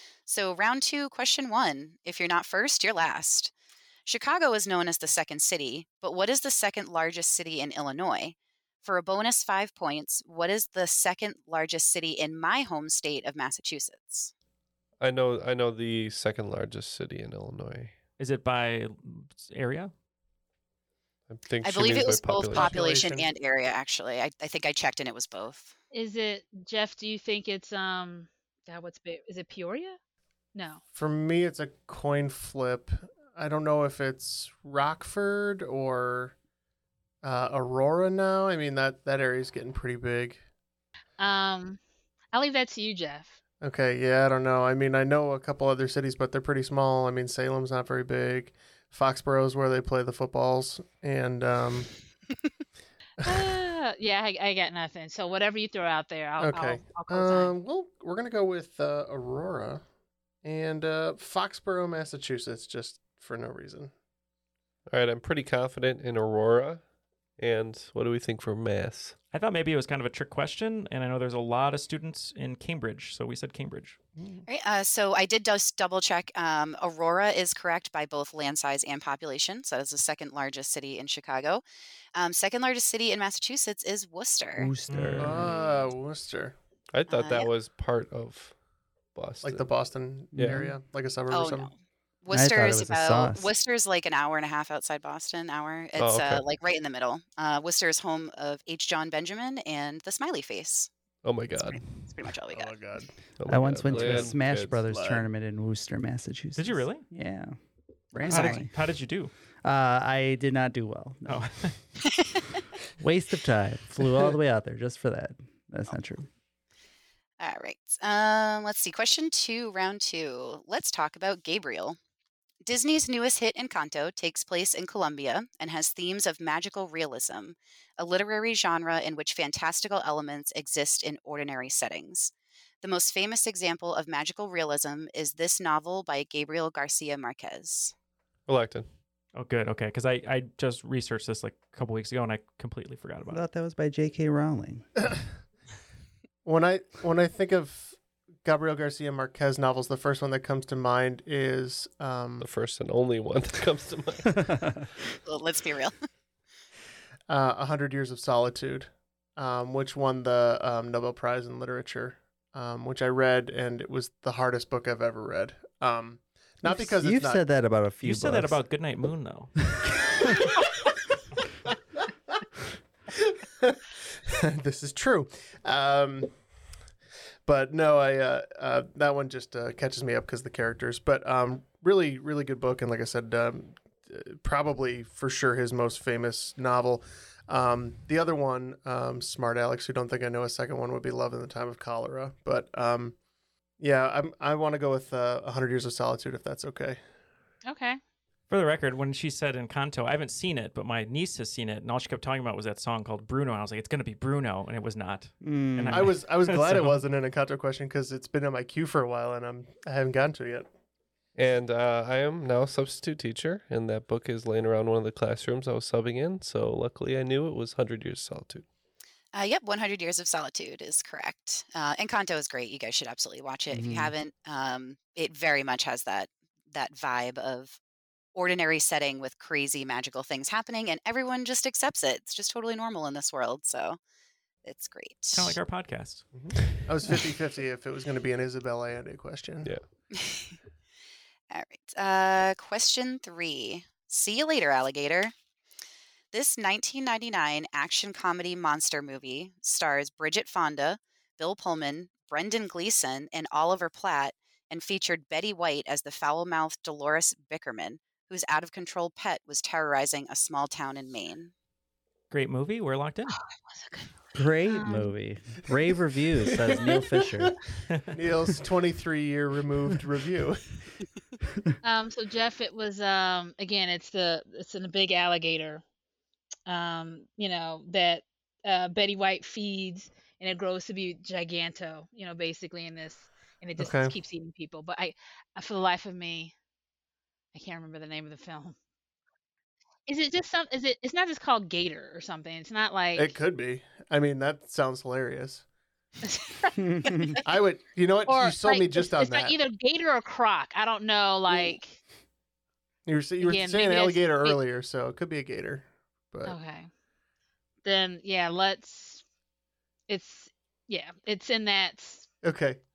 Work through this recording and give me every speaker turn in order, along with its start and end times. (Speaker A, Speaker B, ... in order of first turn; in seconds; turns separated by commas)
Speaker A: 0.3-3.5, Speaker A: 4.1-14.3, Speaker B: 15.0-17.9, Speaker C: 18.2-19.9, Speaker B: 21.3-22.8, Speaker A: 21.6-25.8, Speaker D: 22.5-23.3, Speaker E: 25.9-30.0, Speaker E: 30.6-30.8, Speaker D: 30.9-36.3, Speaker D: 37.2-40.4, Speaker E: 41.2-41.8, Speaker E: 42.3-43.4, Speaker D: 43.6-51.9, Speaker E: 53.2-57.5, Speaker D: 53.2-53.5, Speaker D: 56.4-59.8, Speaker D: 60.4-63.9, Speaker B: 64.9-66.8, Speaker B: 67.4-69.2, Speaker C: 69.3-74.0, Speaker D: 74.2-74.5, Speaker A: 74.5-81.6, Speaker A: 82.2-84.7, Speaker F: 84.6-85.5, Speaker C: 84.9-85.4, Speaker D: 85.2-86.6, Speaker B: 86.9-88.5, Speaker A: 87.1-87.5, Speaker B: 89.2-89.7, Speaker D: 89.4-91.7, Speaker B: 90.3-90.7, Speaker F: 90.3-90.8, Speaker A: 91.3-100.9, Speaker F: 92.3-93.5, Speaker B: 96.0-96.4, Speaker B: 101.2-101.8, Speaker A: 101.7-102.8, Speaker D: 102.5-103.1, Speaker B: 103.4-104.8, Speaker F: 103.5-107.6, Speaker D: 104.0-104.3, Speaker D: 104.8-105.2, Speaker C: 106.6-107.0, Speaker F: 108.1-108.7, Speaker C: 108.2-109.3, Speaker F: 109.6-111.5, Speaker C: 111.3-111.8, Speaker F: 113.0-116.3, Speaker A: 117.4-122.0, Speaker A: 122.6-137.9, Speaker B: 138.5-138.9, Speaker C: 139.3-143.4, Speaker F: 143.3-144.9, Speaker D: 146.4-152.4, Speaker B: 152.4-154.5, Speaker F: 154.3-154.9, Speaker A: 155.3-155.9, Speaker D: 157.3-167.4, Speaker F: 166.7-168.6, Speaker C: 168.0-169.5, Speaker D: 173.2-176.3, Speaker D: 177.5-193.2, Speaker D: 193.8-197.0, Speaker E: 197.7-198.0, Speaker C: 198.5-207.0, Speaker F: 205.4-206.2, Speaker D: 205.9-210.7, Speaker B: 211.4-218.7, Speaker A: 219.3-227.8, Speaker F: 223.7-224.1, Speaker A: 228.3-234.0, Speaker A: 234.6-235.6, Speaker C: 235.3-236.2, Speaker D: 236.3-239.7, Speaker A: 240.1-240.6, Speaker A: 241.5-245.3, Speaker A: 246.3-261.5, Speaker C: 262.3-263.3, Speaker E: 263.7-264.1, Speaker F: 264.4-267.6, Speaker E: 264.7-265.1, Speaker D: 266.6-267.5, Speaker D: 268.1-270.6, Speaker E: 271.8-275.8, Speaker E: 276.7-286.5, Speaker D: 283.8-284.1, Speaker E: 287.5-288.8, Speaker E: 290.1-293.4, Speaker D: 293.1-295.6, Speaker E: 296.2-297.4, Speaker F: 296.8-297.4, Speaker D: 297.4-299.6, Speaker E: 298.3-302.0, Speaker D: 303.1-306.6, Speaker E: 303.4-304.6, Speaker E: 306.5-306.9, Speaker E: 307.8-309.2, Speaker E: 310.1-312.3, Speaker D: 312.4-312.8